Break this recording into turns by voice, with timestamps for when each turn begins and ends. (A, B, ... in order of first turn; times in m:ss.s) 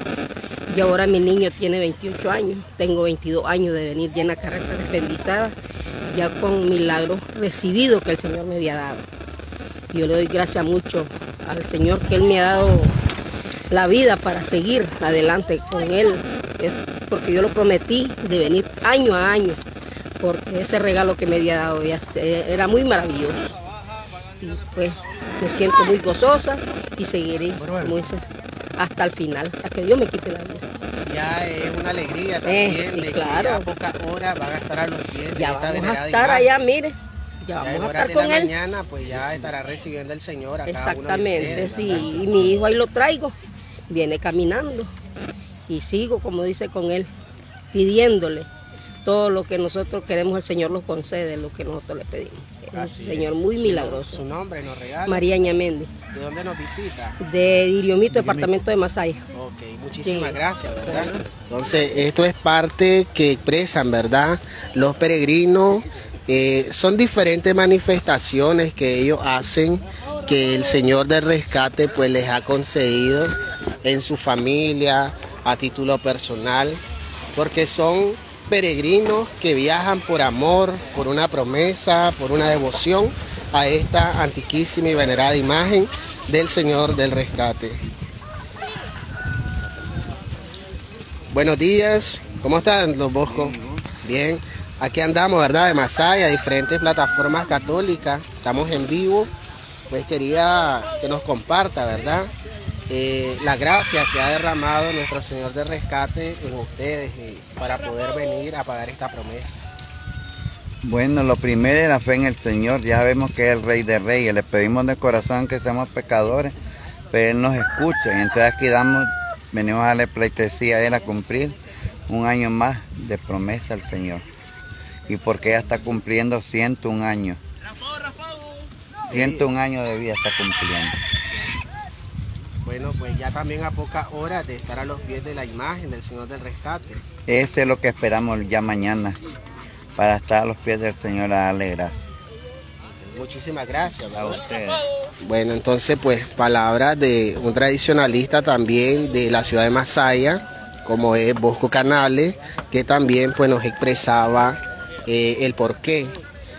0:00.7-0:05.6 A
0:06.1-0:09.1 A
0:09.9-0:12.9 A
0:13.7-0:19.6 A
0:20.2-0:23.6 A
0:24.4-0:28.2 A
0:28.8-0:30.6 A
0:31.1-0:36.5 B
0:32.5-0:33.7 A
0:35.4-0:38.5 A
0:37.6-0:42.3 B
0:40.7-0:43.3 A
0:43.9-0:44.9 A
0:45.7-0:47.1 A
0:47.7-0:48.5 A
0:49.1-0:54.2 A
0:52.7-0:55.2 B
0:55.1-0:55.9 A
0:56.1-0:57.2 B
0:57.2-0:59.2 A
0:59.3-1:16.8 B
1:00.0-1:00.4 A
1:17.4-1:27.8 B
1:31.3-1:39.3 B
1:39.9-1:42.3 B
1:42.9-1:49.6 B
1:50.8-1:56.5 C
1:57.1-2:01.6 C
2:02.1-2:04.2 C
2:05.1-2:07.4 C
2:09.1-2:11.0 C
2:09.1-2:09.5 B
2:12.6-2:17.0 B
2:17.3-2:19.2 C
2:20.0-2:22.1 C
2:23.1-2:24.4 B
2:24.1-2:24.9 C
2:25.2-2:36.2 B